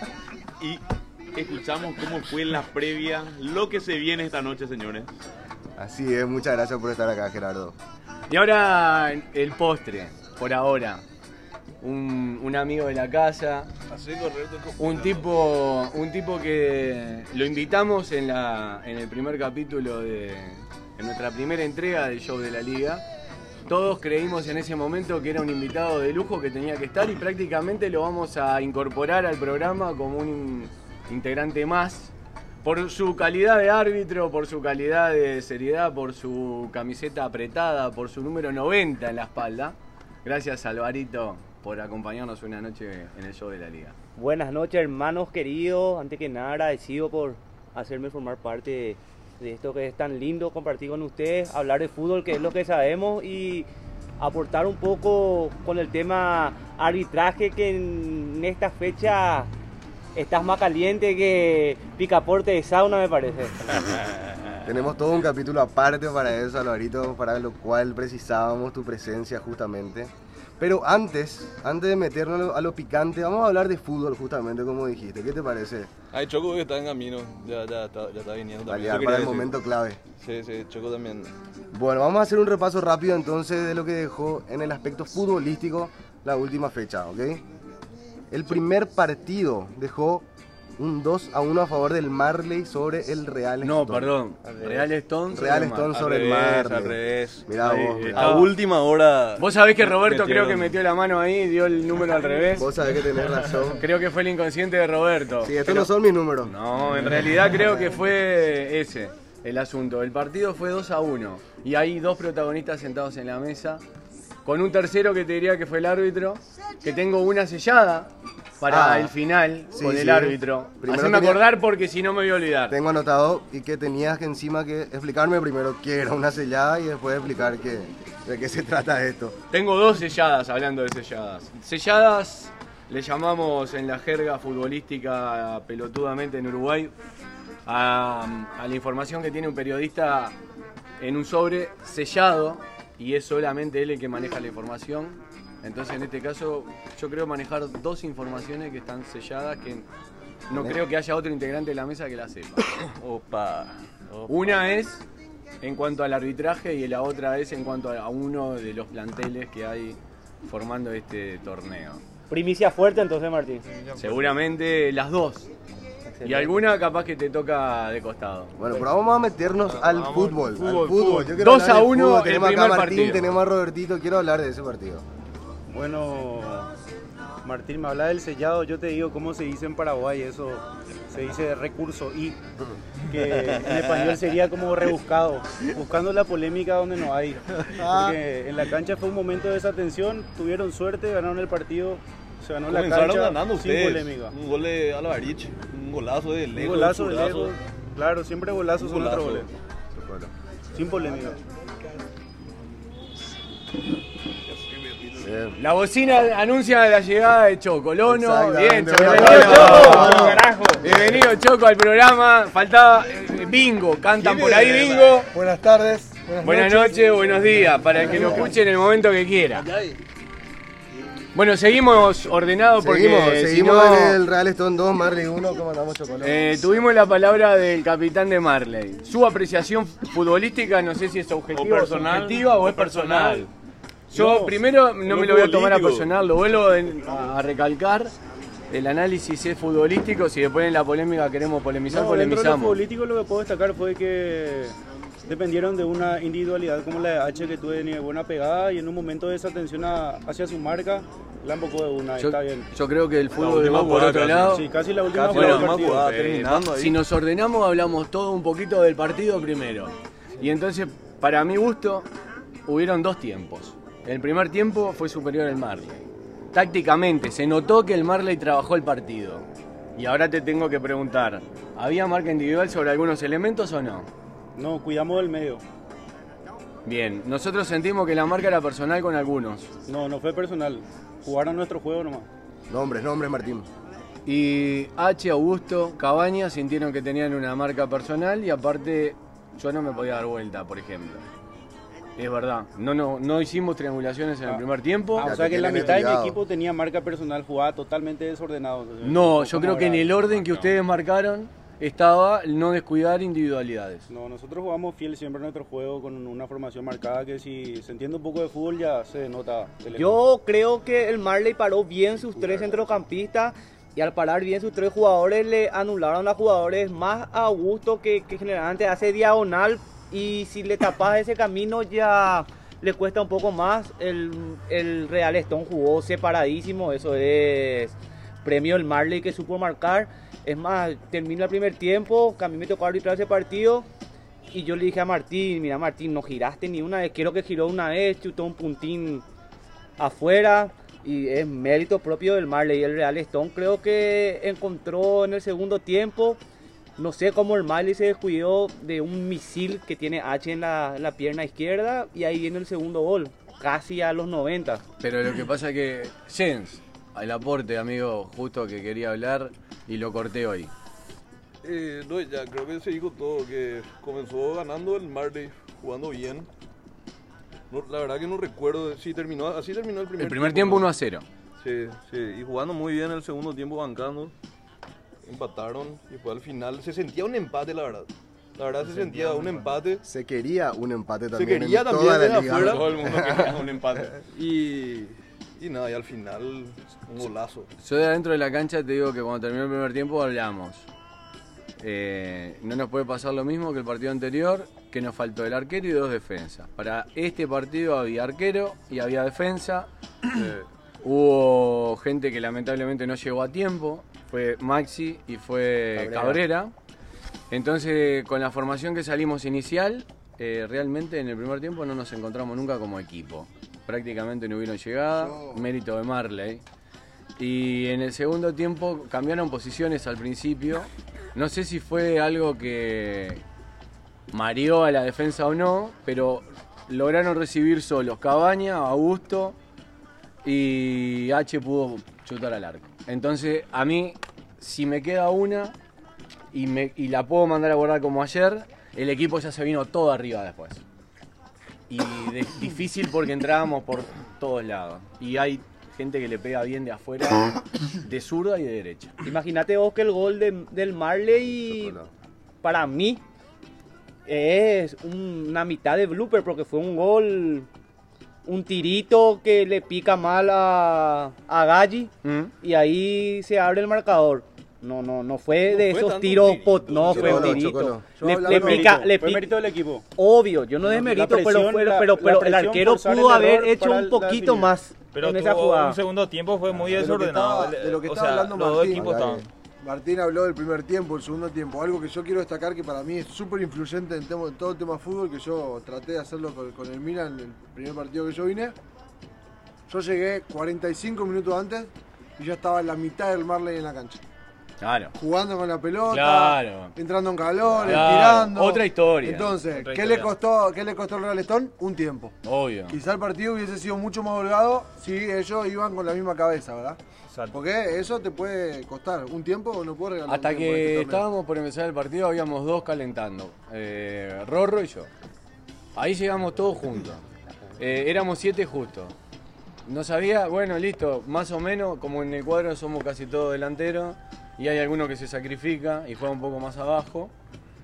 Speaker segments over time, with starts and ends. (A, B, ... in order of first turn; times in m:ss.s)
0:01.3-0:05.1 A
0:05.8-0:07.8 B
0:08.3-0:11.0 C
0:11.8-0:13.7 C
0:13.9-0:15.3 D
0:14.8-0:23.0 C
0:23.7-0:32.1 C
0:32.6-0:43.9 C
0:44.2-0:53.7 E
0:54.2-0:59.5 E
1:00.2-1:03.7 E
1:04.6-1:15.9 B
1:16.1-1:19.5 D
1:18.7-1:20.0 B
1:20.2-1:21.3 D
1:21.7-1:27.4 B
1:28.3-1:30.2 B
1:30.8-1:34.2 B
1:33.6-1:35.9 C
1:34.7-1:38.4 B
1:35.9-1:40.8 D
1:37.6-1:38.5 C
1:39.4-1:42.7 C
1:42.6-1:43.8 B
1:43.8-1:45.9 C
1:45.4-1:46.5 B
1:46.4-1:53.8 C
1:54.4-2:02.8 C
1:58.7-1:59.1 B
1:59.7-2:01.4 B
2:02.7-2:09.4 B
2:09.5-2:16.9 C
2:17.6-2:20.3 C
2:21.0-2:29.8 C
2:30.5-2:32.6 C
2:30.5-2:30.8 B
2:32.8-2:34.6 D
2:34.3-2:35.0 C
2:35.6-2:42.0 C
2:42.3-2:43.6 E
2:43.6-2:44.3 F
2:44.0-2:45.5 C
2:46.1-2:46.6 E
2:46.2-2:48.5 C
2:48.6-2:55.0 B
2:49.7-2:51.4 F
2:51.4-2:53.3 C
2:55.7-2:56.7 G
2:57.4-3:02.4 G
3:03.1-3:14.3 G
3:07.7-3:08.2 D
3:12.7-3:17.6 D
3:16.5-3:19.5 G
3:18.8-3:19.5 D
3:19.9-3:20.3 B
3:20.7-3:21.4 G
3:24.5-3:25.3 D
3:25.2-3:25.6 B
3:25.6-3:35.3 C
3:28.0-3:30.4 B
3:29.0-3:30.2 H
3:29.2-3:30.9 F
3:34.2-3:38.6 H
3:36.4-3:39.7 C
3:38.1-3:38.5 B
3:39.6-3:40.0 H
3:41.3-3:44.2 C
3:42.8-3:46.5 B
3:46.2-3:53.5 C
3:51.5-3:53.5 D
3:54.1-3:58.1 C
3:54.1-3:54.5 G
3:55.0-3:56.1 D
3:58.7-4:02.8 C
4:01.9-4:12.7 G
4:12.2-4:14.6 C
4:13.4-4:17.0 D
4:14.4-4:16.1 G
4:15.3-4:22.1 C
4:22.6-4:26.0 C
4:26.5-4:34.1 C
4:34.6-4:35.6 G
4:36.8-4:39.7 C
4:39.9-4:42.3 G
4:42.7-4:43.7 B
4:44.2-4:51.2 C
4:52.2-4:55.3 C
4:55.1-5:00.2 G
4:55.2-4:56.4 B
4:59.0-5:04.1 C
5:04.1-5:10.2 G
5:10.0-5:33.9 E
5:34.5-5:39.2 E
5:40.0-5:46.4 E
5:47.0-5:54.8 E
5:55.0-6:00.7 C
6:01.6-6:06.5 D
6:07.7-6:10.9 D
6:10.2-6:11.2 C
6:11.6-6:14.3 D
6:15.2-6:20.0 D
6:20.0-6:23.7 B
6:21.3-6:27.7 D
6:27.8-6:30.8 C
6:31.8-6:40.4 C
6:40.3-6:40.6 D
6:41.0-6:46.7 C
6:46.0-6:46.4 E
6:47.5-6:56.6 C
6:55.1-6:55.6 H
6:57.4-7:03.4 C
7:04.3-7:09.6 C
7:10.4-7:15.7 C
7:16.5-7:20.8 C
7:21.9-7:29.1 C
7:29.2-7:32.0 E
7:31.7-7:32.1 B
7:32.6-7:33.2 E
7:34.3-7:37.7 E
7:38.4-7:49.5 E
7:42.2-7:42.5 C
7:45.7-7:47.6 D
7:47.1-7:48.1 B
7:48.1-7:49.1 H
7:48.4-7:50.0 G
7:50.1-7:56.0 E
7:50.8-7:54.7 G
7:55.1-7:59.5 F
7:56.7-7:59.3 H
7:58.9-7:59.4 B
7:59.8-8:08.7 H
8:09.9-8:14.2 H
8:14.8-8:15.1 C
8:15.1-8:22.3 H
8:16.1-8:17.0 C
8:17.8-8:19.6 C
8:19.7-8:20.3 F
8:22.4-8:23.0 C
8:22.9-8:27.0 H
8:27.3-8:27.6 F
8:27.5-8:31.3 H
8:30.3-8:35.1 C
8:36.0-8:37.2 C
8:37.8-8:39.1 C
8:39.8-8:47.3 C